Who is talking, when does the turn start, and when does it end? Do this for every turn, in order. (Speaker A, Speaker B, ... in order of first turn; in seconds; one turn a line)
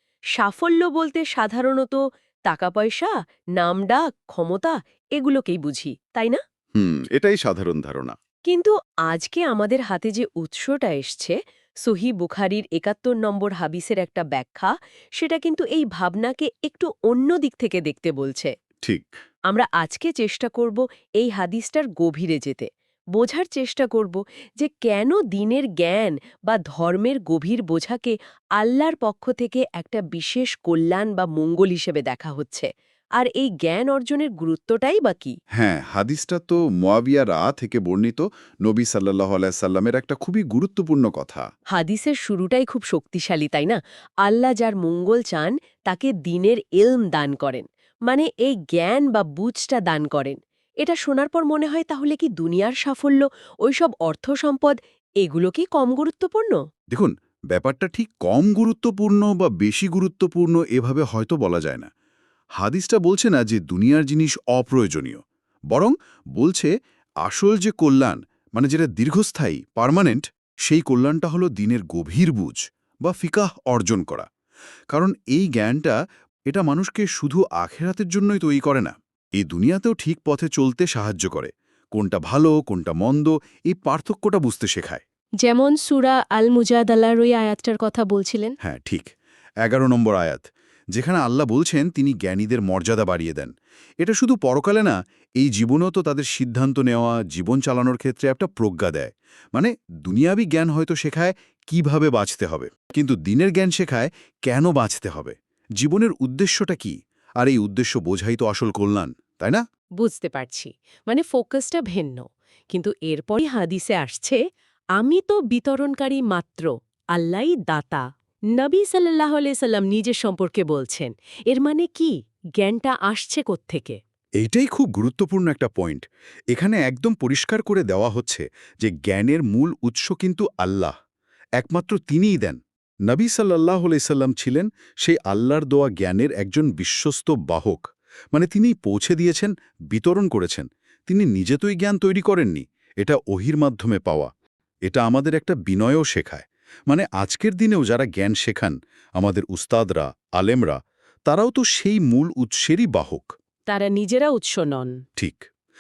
Speaker A: 0.4-6.4
Speaker B: 6.8-8.1
Speaker A: 8.5-18.5
Speaker B: 18.8-19.2
Speaker A: 19.5-35.4
Speaker B: 35.6-41.4
Speaker A: 41.7-56.6
Speaker B: 56.9-61.9
Speaker B: 62.6-65.2
Speaker B: 65.7-66.7
Speaker B: 67.2-74.3
Speaker B: 74.9-76.0
Speaker B: 76.5-85.0
Speaker A: 85.4-88.5
Speaker B: 88.6-89.1
Speaker B: 89.6-109.6
Speaker A: 110.0-114.4
Speaker A: 115.0-118.0
Speaker A: 118.5-124.0
Speaker B: 124.4-130.9
Speaker B: 131.6-144.3
Speaker B: 144.9-153.3
Speaker A: 153.7-155.0
Speaker B: 155.2-155.5